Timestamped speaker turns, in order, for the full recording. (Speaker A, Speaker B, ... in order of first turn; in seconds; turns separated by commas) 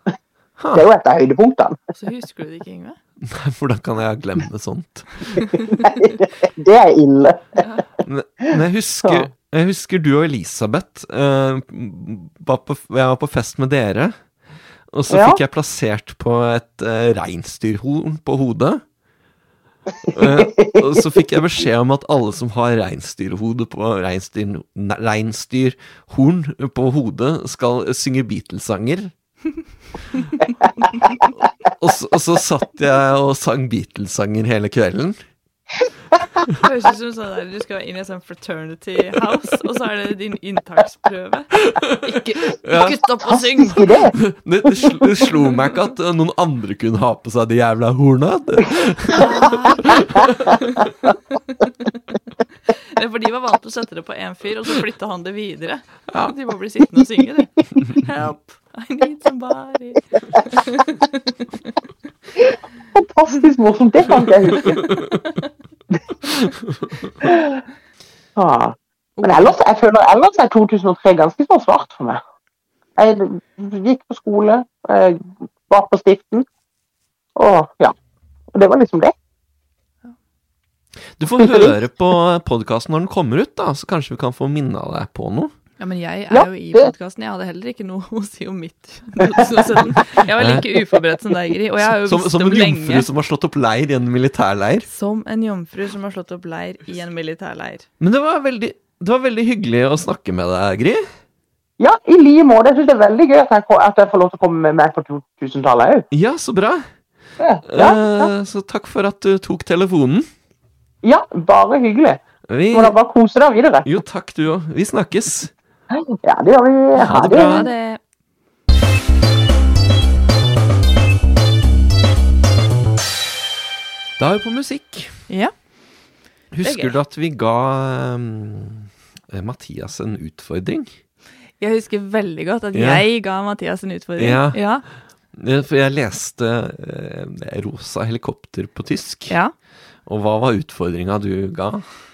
Speaker A: 0.6-0.9, Speaker B: 0.7-1.8, Speaker C: 1.9-3.0, Speaker A: 3.2-5.4, Speaker C: 5.4-5.8, Speaker B: 5.7-7.6, Speaker C: 7.6-7.9, Speaker A: 8.0-14.2, Speaker A: 14.9-18.8, Speaker B: 15.1-15.4, Speaker A: 20.1-29.1, Speaker B: 20.1-21.2, Speaker A: 31.8-35.2, Speaker C: 36.6-43.9, Speaker A: 41.6-43.0, Speaker B: 43.2-44.1, Speaker A: 44.2-50.6, Speaker C: 49.1-51.9, Speaker C: 52.7-61.5, Speaker B: 62.4-64.9, Speaker B: 67.2-67.6, Speaker B: 68.3-72.2, Speaker C: 69.2-69.6, Speaker B: 73.0-76.5, Speaker B: 77.3-77.9, Speaker B: 78.5-79.1, Speaker A: 81.2-85.5, Speaker B: 81.4-81.8, Speaker C: 85.8-93.1, Speaker B: 86.3-86.9, Speaker B: 89.4-89.8, Speaker A: 90.3-90.7, Speaker A: 91.8-94.9, Speaker C: 94.9-97.8, Speaker A: 98.0-101.0, Speaker B: 101.8-106.0, Speaker A: 106.1-106.8, Speaker B: 107.4-108.3, Speaker A: 107.6-110.3, Speaker B: 111.0-112.2, Speaker A: 112.5-113.0, Speaker B: 112.7-113.9, Speaker A: 113.8-115.5, Speaker B: 116.2-117.7, Speaker A: 117.0-117.7, Speaker C: 117.0-118.0, Speaker A: 124.2-125.1, Speaker A: 126.5-130.9, Speaker C: 126.6-127.0, Speaker C: 131.6-134.8, Speaker A: 132.7-133.1, Speaker A: 134.2-134.6, Speaker A: 135.3-139.3, Speaker C: 139.3-139.5, Speaker A: 140.1-141.8